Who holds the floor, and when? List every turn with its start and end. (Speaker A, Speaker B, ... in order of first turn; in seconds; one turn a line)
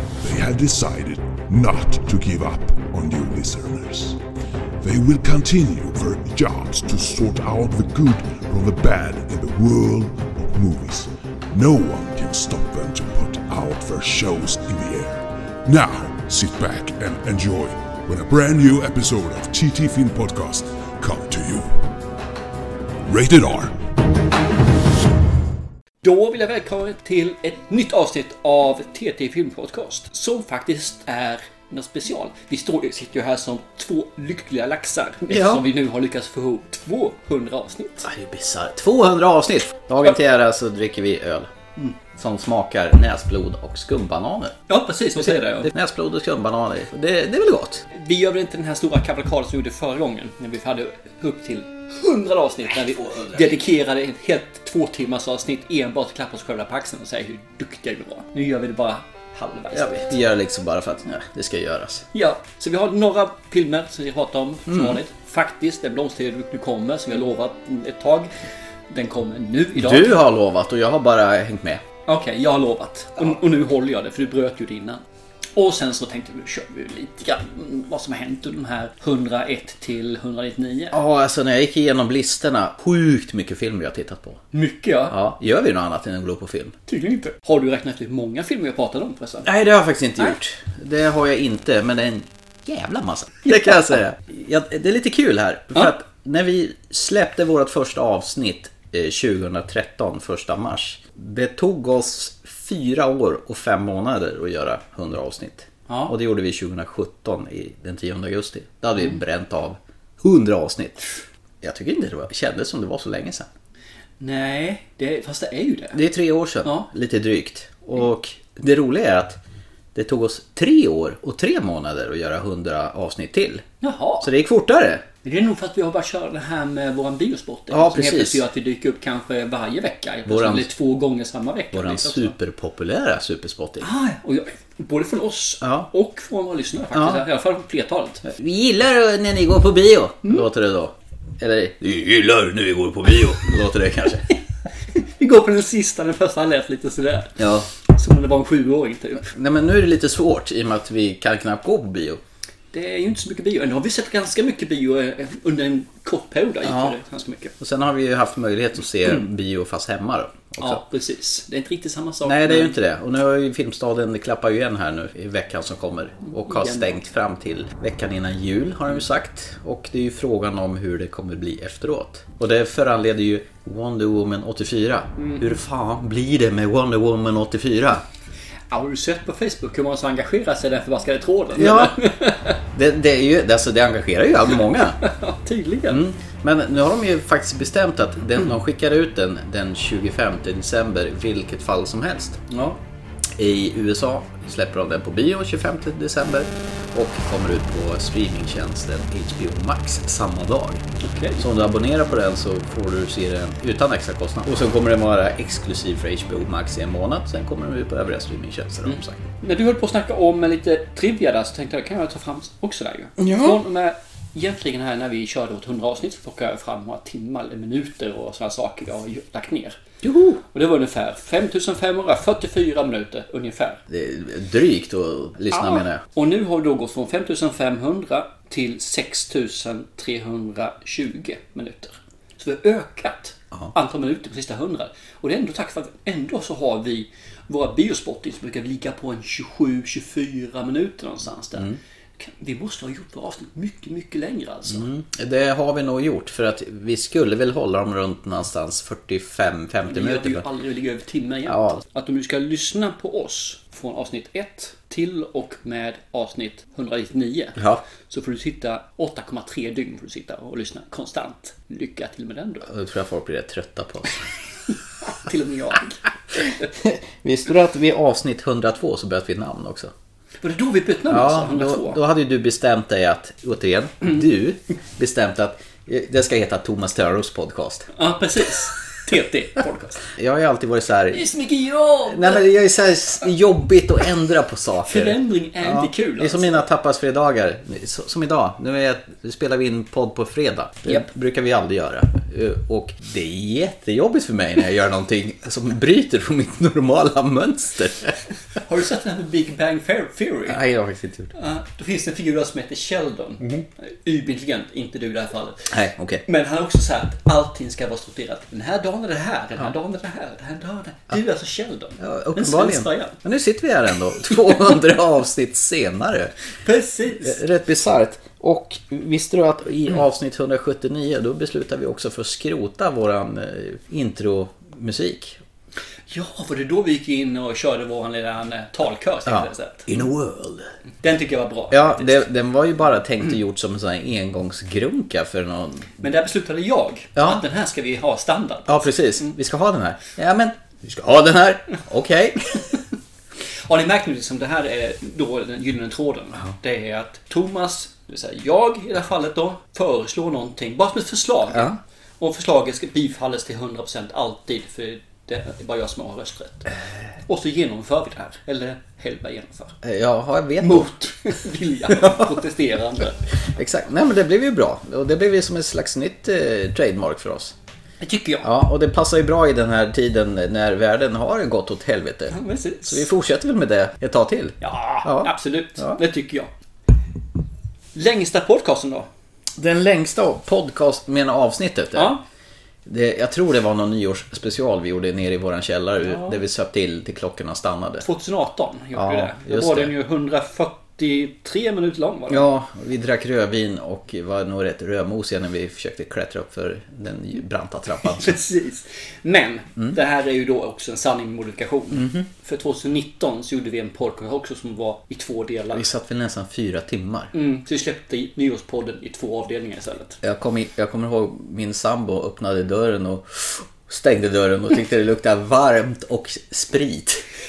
Speaker A: 0.2-4.2
Speaker A: 4.8-21.8
Speaker A: 23.1-23.8
Speaker B: 26.0-38.1
Speaker C: 35.3-35.6
Speaker C: 38.0-41.5
Speaker C: 42.1-44.6
Speaker B: 44.7-45.7
Speaker C: 45.2-47.9
Speaker B: 47.9-60.1
Speaker C: 52.9-53.5
Speaker C: 59.7-62.1
Speaker B: 62.1-68.3
Speaker C: 64.7-65.0
Speaker B: 68.9-70.2
Speaker C: 69.8-71.8
Speaker B: 72.1-75.0
Speaker B: 75.5-81.0
Speaker C: 80.9-84.4
Speaker B: 84.5-85.2
Speaker C: 85.1-86.7
Speaker B: 86.9-89.5
Speaker C: 89.4-111.1
Speaker B: 105.9-106.2
Speaker C: 111.6-113.5
Speaker B: 114.2-116.0
Speaker C: 115.9-119.4
Speaker C: 119.9-123.7
Speaker B: 123.8-124.3
Speaker C: 124.2-125.0
Speaker B: 125.2-132.3
Speaker C: 127.7-128.4
Speaker C: 130.3-130.7
Speaker C: 131.7-133.9
Speaker B: 133.8-138.2
Speaker C: 135.6-135.9
Speaker C: 136.9-137.2
Speaker C: 138.2-144.3
Speaker B: 144.9-149.3
Speaker C: 147.4-147.7
Speaker C: 149.2-152.2
Speaker B: 152.7-157.6
Speaker C: 156.6-157.0
Speaker C: 157.6-160.8
Speaker B: 160.6-162.8
Speaker C: 162.2-178.0
Speaker B: 166.3-167.0
Speaker B: 175.2-175.5
Speaker B: 178.7-182.6
Speaker C: 181.6-182.0
Speaker C: 182.7-185.0
Speaker B: 185.0-186.0
Speaker C: 185.9-192.4
Speaker B: 192.5-192.8
Speaker C: 193.4-200.8
Speaker B: 201.0-201.5
Speaker C: 201.4-209.2
Speaker B: 208.8-219.8
Speaker C: 213.2-213.6
Speaker C: 220.0-220.4
Speaker B: 220.5-223.8
Speaker C: 223.9-226.0
Speaker B: 225.5-244.9
Speaker C: 244.7-250.4
Speaker B: 249.8-262.7
Speaker C: 251.5-251.8
Speaker C: 257.6-257.8
Speaker C: 262.7-264.2
Speaker B: 265.0-266.7
Speaker C: 266.8-269.9
Speaker B: 270.4-272.0
Speaker C: 271.1-277.9
Speaker B: 277.9-280.0
Speaker C: 280.1-281.3
Speaker B: 281.1-282.4
Speaker C: 282.1-298.2
Speaker B: 284.9-286.6
Speaker B: 298.6-300.6
Speaker C: 300.5-301.3
Speaker B: 301.3-305.7
Speaker C: 305.7-306.2
Speaker B: 306.3-313.2
Speaker C: 312.0-316.3
Speaker B: 316.6-317.4
Speaker C: 317.2-325.4
Speaker B: 326.1-329.9
Speaker C: 329.3-330.7
Speaker B: 331.0-332.3
Speaker C: 331.7-336.0
Speaker B: 336.0-339.3
Speaker C: 337.2-337.4
Speaker C: 338.7-342.4
Speaker B: 343.7-356.7
Speaker C: 351.5-351.8
Speaker B: 357.2-359.8
Speaker C: 359.8-360.9
Speaker B: 360.6-363.2
Speaker C: 362.0-362.2
Speaker C: 363.6-367.6
Speaker B: 368.0-368.5
Speaker C: 368.4-376.0
Speaker B: 372.3-373.1
Speaker B: 374.6-376.5
Speaker B: 377.9-379.1
Speaker C: 379.6-382.2
Speaker B: 381.9-382.2
Speaker C: 382.9-388.1
Speaker B: 386.1-386.4
Speaker B: 388.0-392.5
Speaker C: 388.9-389.9
Speaker C: 392.3-398.4
Speaker B: 398.2-405.9
Speaker C: 401.9-402.3
Speaker C: 405.7-407.3
Speaker B: 407.3-410.2
Speaker C: 410.2-417.2